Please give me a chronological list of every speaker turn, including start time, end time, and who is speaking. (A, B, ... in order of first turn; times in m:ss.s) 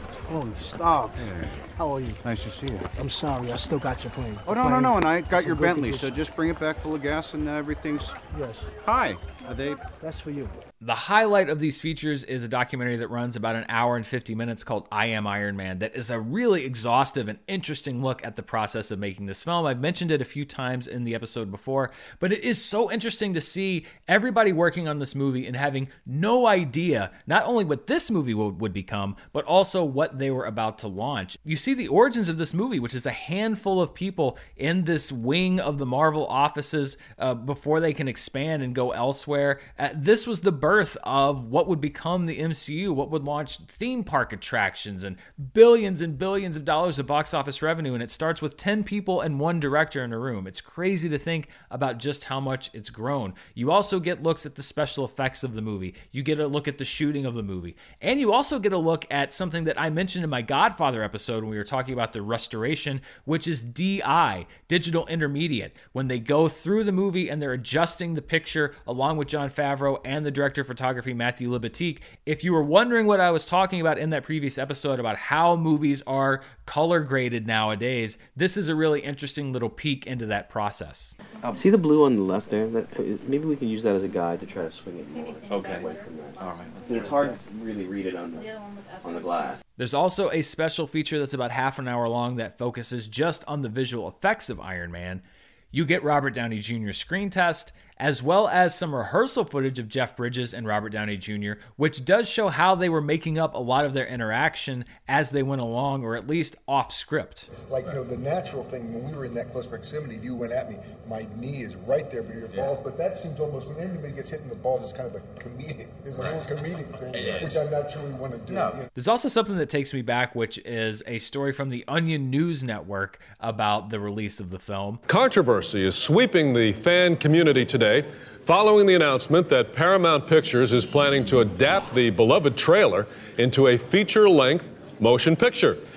0:00.3-0:02.2 A
0:02.3-0:02.8 B
0:02.9-0:06.2 A
0:04.5-0:08.2 B
0:08.3-0:08.7 A
0:08.8-0:09.8 B
0:10.0-0:10.6 A
0:10.8-1:21.2 C
1:21.5-1:29.6 D
1:29.8-1:35.2 C
1:35.7-1:47.5 C
1:47.7-1:58.8 E
1:59.0-2:05.0 C
2:05.1-2:15.8 F